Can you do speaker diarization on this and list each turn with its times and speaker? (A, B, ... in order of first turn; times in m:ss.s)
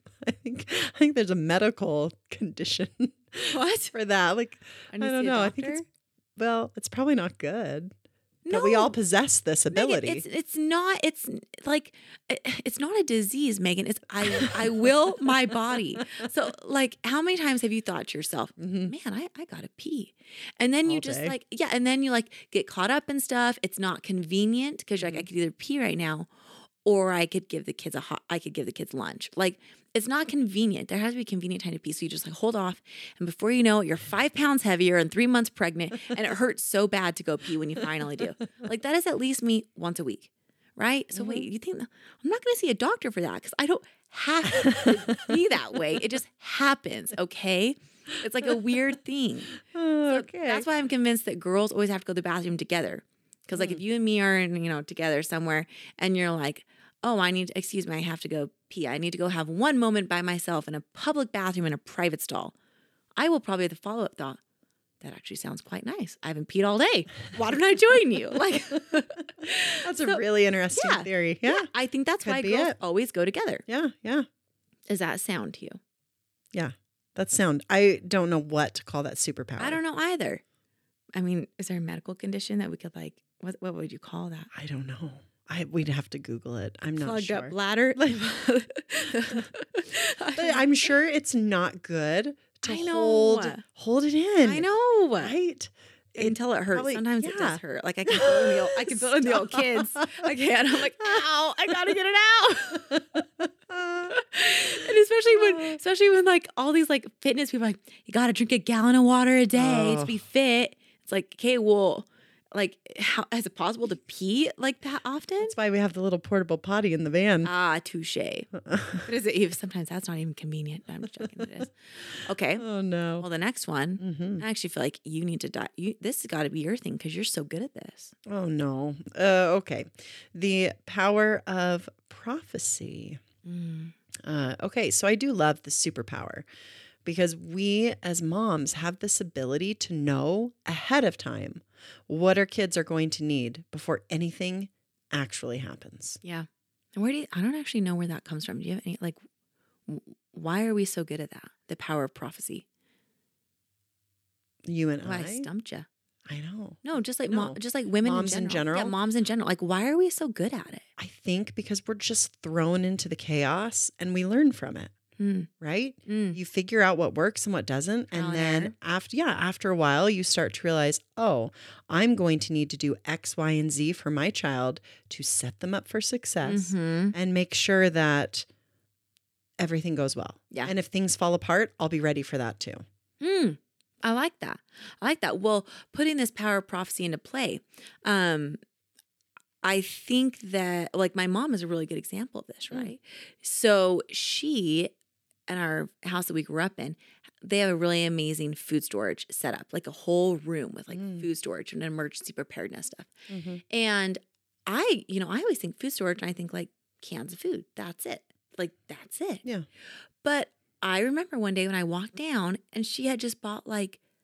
0:00.2-0:05.8 A
0:03.5-0:03.9 B
0:04.9-0:05.8 B
0:06.4-0:07.9 A
0:08.4-0:09.0 B
0:08.5-0:10.2 A
0:09.7-0:26.3 B
0:14.2-0:14.7 A
0:18.6-0:18.9 A
0:20.8-0:21.3 A
0:25.0-0:25.3 A
0:26.8-0:49.5 B
0:41.1-0:41.5 A
0:44.7-0:45.3 A
0:49.6-0:50.7 A
0:50.1-1:02.5 B
0:53.5-0:53.8 A
1:03.2-1:04.4 B
1:05.0-1:10.2 B
1:09.8-1:11.7 A
1:10.7-1:13.6 B
1:12.2-1:12.8 A
1:13.7-1:14.2 A
1:14.9-1:15.8 B
1:16.5-1:19.8 A
1:19.6-1:20.4 B
1:21.1-1:24.5 B
1:24.5-1:27.5 A
1:27.0-1:30.7 B
1:30.3-1:34.6 A
1:32.6-1:33.6 B
1:34.4-1:35.4 B
1:35.2-1:40.3 A
1:36.1-1:43.0 B
1:42.8-1:44.2 A
1:44.1-1:55.6 B
1:44.8-1:45.8 A
1:49.5-1:50.2 A
1:55.4-1:57.5 A
1:57.4-1:58.5 B
1:58.5-1:59.1 A
1:59.0-2:02.6 B
2:02.6-2:03.3 A
2:03.2-2:08.1 B
2:04.0-2:04.4 A
2:08.2-2:13.2 A
2:13.4-2:13.9 B
2:14.2-2:16.4 A
2:17.0-2:26.2 A
2:26.2-2:29.2 B
2:29.9-2:32.6 B
2:34.6-2:35.5 A
2:35.0-2:35.9 B
2:36.3-2:39.0 A
2:36.8-2:40.8 B
2:41.0-2:44.9 A
2:45.2-2:45.5 B
2:45.6-2:58.4 A
2:46.1-2:46.4 B
2:48.1-2:48.7 B
2:56.4-2:57.1 B
2:59.6-3:02.8 A
3:03.2-3:08.6 B
3:09.6-3:14.9 B
3:15.5-3:23.1 B
3:20.9-3:21.2 A
3:23.3-3:23.6 A
3:23.7-3:29.4 B
3:30.2-3:34.0 B